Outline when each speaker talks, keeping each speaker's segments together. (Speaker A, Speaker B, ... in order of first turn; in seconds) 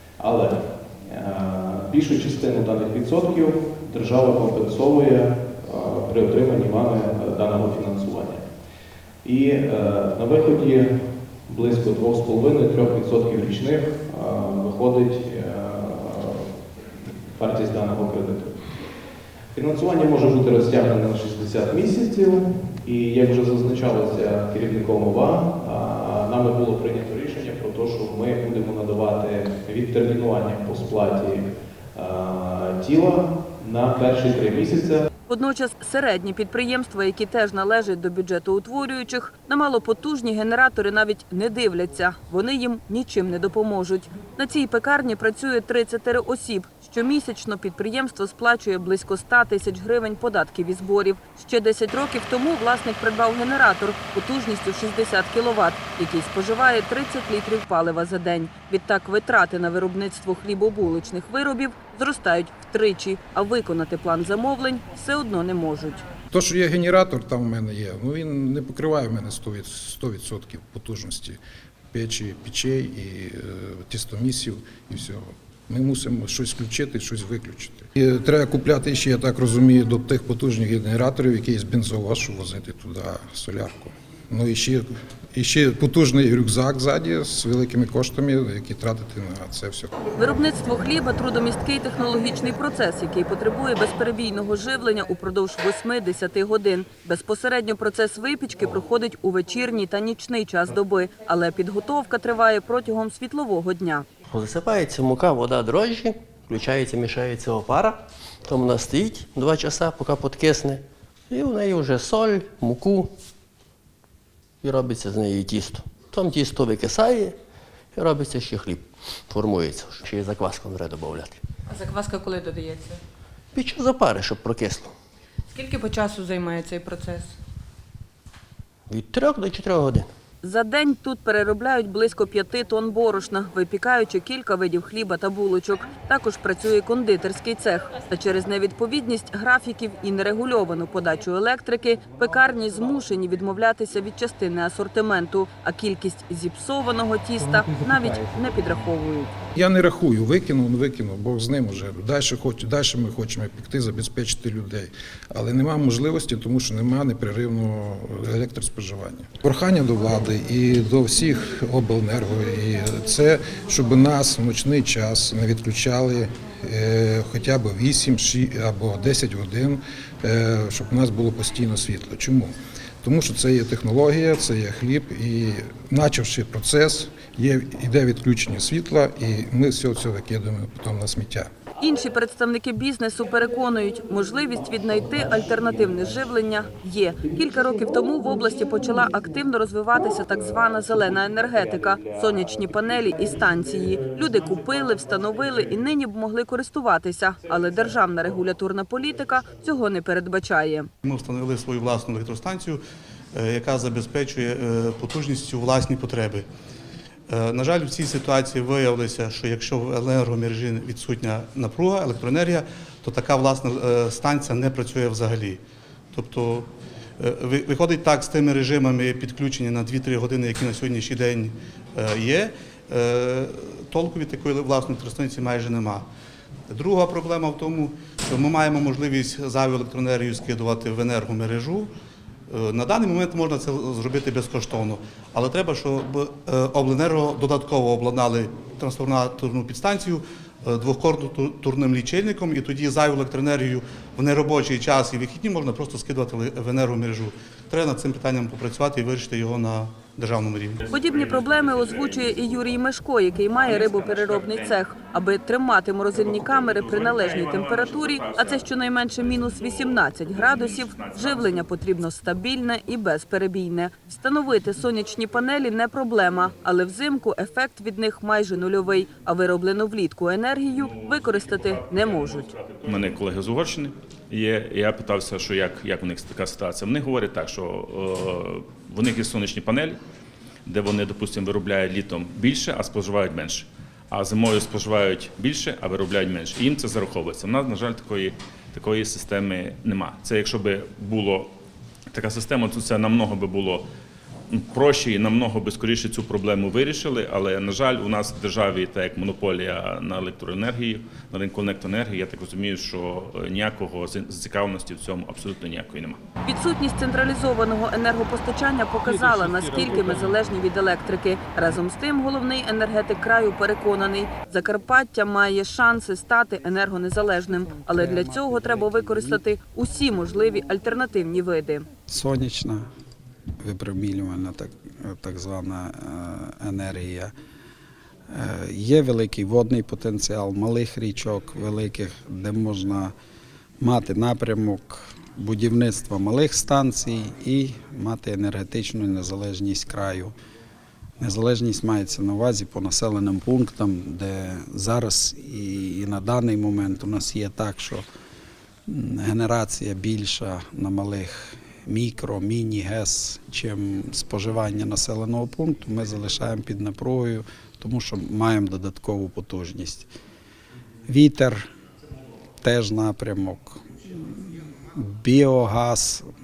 Speaker A: 0.2-8.4, 9.2-16.5, 17.3-18.6, 19.5-35.0
Speaker B: 35.3-66.0, 90.2-104.0, 130.4-149.3, 181.8-200.9, 250.9-272.5, 306.4-321.9
Speaker C: 66.3-71.4, 71.9-89.9, 149.5-172.5, 173.0-181.5
Speaker D: 104.3-113.1, 114.6-117.3, 117.9-121.4, 123.5-124.9, 128.9-130.1
Speaker E: 121.7-123.0, 125.5-127.3
Speaker F: 201.0-202.8, 203.3-206.4, 207.3-215.6, 216.1-226.1, 226.7-231.9, 232.5-250.8
Speaker G: 250.8-252.5, 253.5-254.7, 256.1-261.6, 270.8-280.0, 280.6-291.5, 292.1-293.9, 294.5-306.2
Speaker H: 317.8-319.4, 322.1-322.9, 323.6-327.3, 328.3-333.1, 333.8-340.3, 341.2-348.0, 348.9-360.1, 361.1-361.7, 362.6-366.2